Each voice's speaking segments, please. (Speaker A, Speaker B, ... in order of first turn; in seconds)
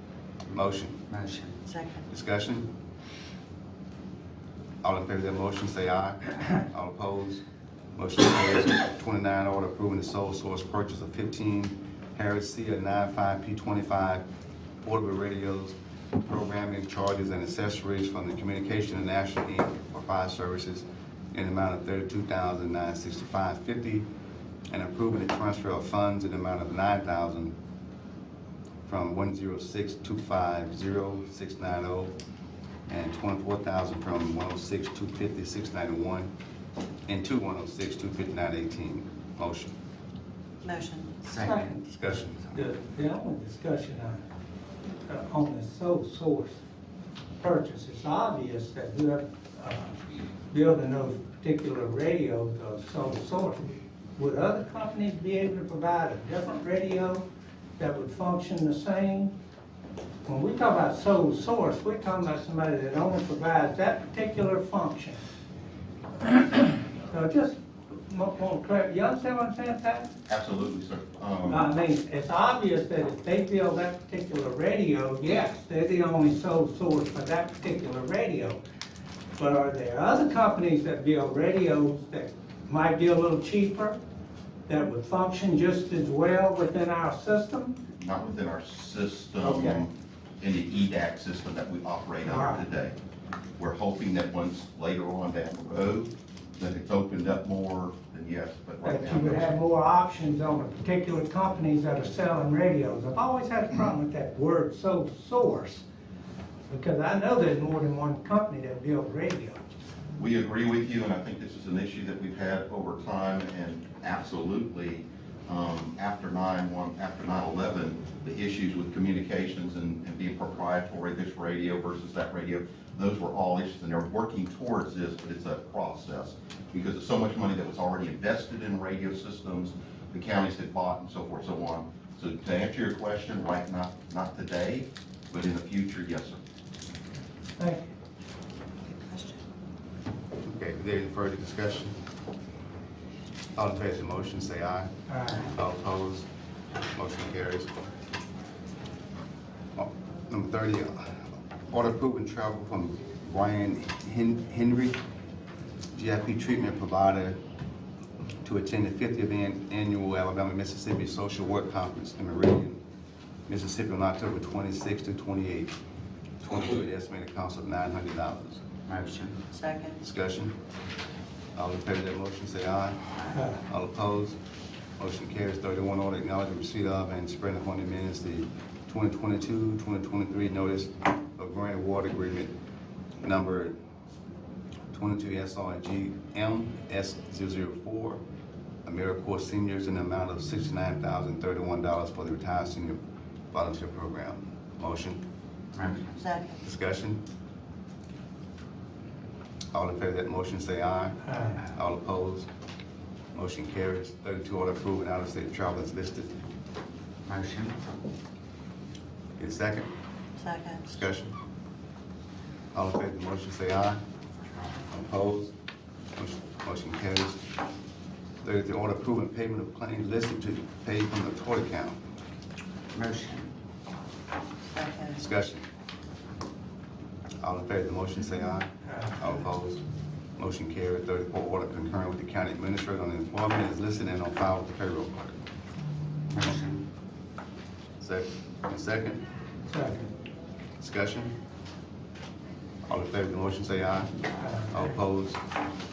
Speaker A: 0.5-1.0, 2.1-2.7, 4.8-7.4, 8.0-14.2, 14.8-24.1, 24.7-27.6, 28.9-32.1, 32.9-36.3, 37.1-39.7, 41.8-42.5, 140.4-142.0, 143.6-146.3, 146.9-147.7, 149.8-155.0, 155.9-157.4, 158.4-162.8, 163.5-165.7, 166.4-168.6, 170.0-170.6, 171.6-173.0, 173.6-174.4, 175.0-182.5, 183.2-183.8, 184.9-188.2, 188.8-193.0, 193.5-195.2, 196.6-197.2, 199.7-202.5, 203.3-206.3, 209.4-209.9, 210.9-211.3, 212.7-214.0, 214.9-215.5, 216.2-217.4, 218.4-222.0, 225.1-225.7, 227.4-229.8, 230.4-235.4, 238.0-239.2, 240.8-241.3, 242.9-244.1, 244.7-245.4
Speaker B: 1.1-1.6, 41.2-41.8, 168.9-169.4, 195.7-196.1, 207.2-208.1, 222.9-223.5, 236.3-236.8
Speaker C: 1.6-2.1, 40.6-41.3, 138.9-139.4, 169.5-170.0, 196.0-196.6, 210.4-210.9, 224.7-225.2
Speaker D: 41.4-41.7, 42.5-44.2, 45.0-46.6, 47.4-50.0, 50.5-57.2, 57.8-59.3, 60.2-65.2, 66.2-70.1, 71.5-78.6, 79.4-84.0, 84.7-87.8, 89.4-89.8, 92.2-92.6, 98.8-105.8, 106.7-109.6, 137.6-137.8, 145.1-145.4, 201.2-201.6, 228.8-229.2, 239.7-240.1, 244.4-244.8
Speaker E: 70.3-71.7, 88.0-93.0, 93.6-99.5, 110.2-136.4